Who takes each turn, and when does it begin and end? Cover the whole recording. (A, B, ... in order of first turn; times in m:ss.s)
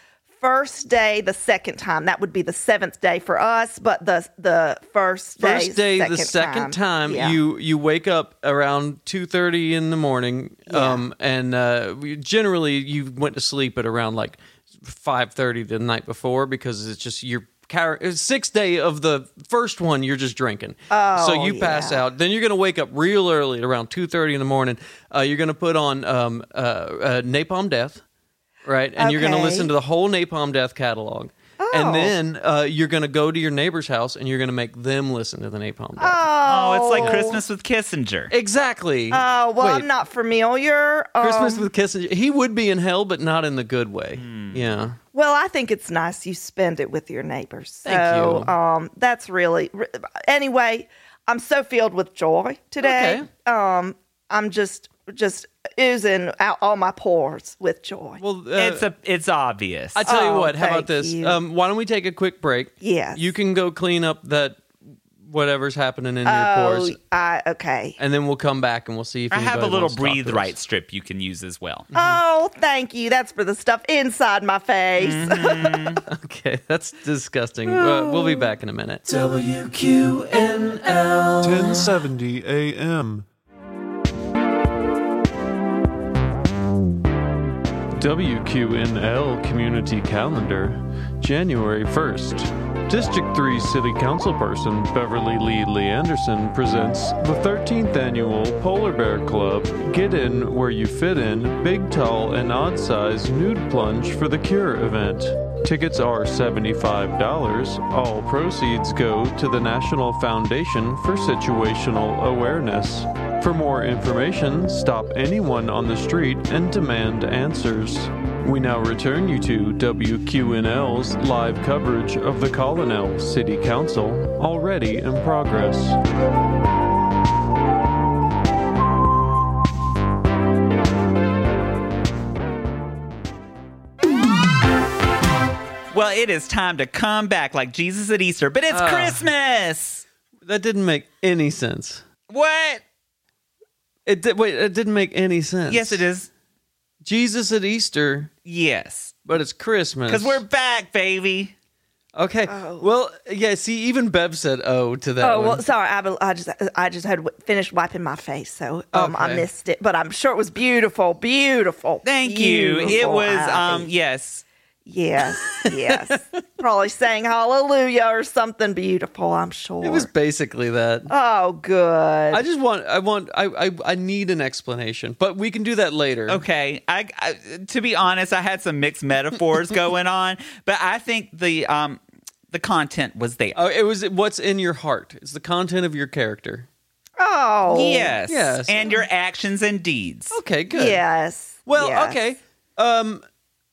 0:00.4-0:07.4 A
0:05.4-0:28.0 B
0:10.7-0:11.0 A
0:20.9-0:22.0 A
0:28.6-0:36.2 B
0:29.0-0:29.7 A
0:31.6-0:32.1 A
0:36.0-0:37.4 A
0:36.4-0:38.3 C
0:37.0-0:37.4 B
0:38.3-0:39.9 B
0:39.1-0:41.7 A
0:41.2-0:45.0 B
0:44.2-0:44.7 C
0:45.1-0:58.2 A
0:47.8-0:48.5 B
0:52.8-0:53.3 B
0:58.2-0:58.8 B
0:58.6-1:00.0 C
1:00.0-1:04.7 B
1:00.0-1:01.4 A
1:02.8-1:03.3 A
1:05.2-1:07.0 B
1:06.2-1:08.0 A
1:08.0-1:10.5 B
1:09.3-1:11.9 C
1:11.9-1:12.2 B
1:11.9-1:16.0 A
1:15.0-1:16.0 C
1:16.1-1:21.9 B
1:17.7-1:18.5 A
1:21.4-1:23.3 D
1:28.0-2:06.0 D
1:31.2-1:31.9 B
1:49.8-1:51.0 B
1:54.2-1:54.8 B
1:58.4-1:59.5 B
2:15.9-2:20.0 C
2:18.7-2:19.2 B
2:20.4-2:22.0 B
2:22.3-2:22.8 C
2:24.0-2:26.0 B
2:25.7-2:26.3 C
2:27.0-2:28.3 B
2:28.4-2:29.2 C
2:29.2-2:30.4 B
2:30.1-2:31.5 C
2:32.2-2:35.6 B
2:32.5-2:32.9 A
2:35.2-2:43.9 A
2:38.9-2:39.5 B
2:42.0-2:44.4 C
2:44.8-2:50.1 A
2:45.5-2:46.2 B
2:49.8-2:51.1 B
2:51.1-2:52.4 A
2:52.3-2:56.4 B
2:56.3-3:03.6 C
3:03.5-3:06.7 B
3:07.2-3:08.1 A
3:07.7-3:10.4 C
3:08.3-3:09.0 B
3:10.3-3:11.0 B
3:10.7-3:12.2 A
3:11.7-3:13.2 B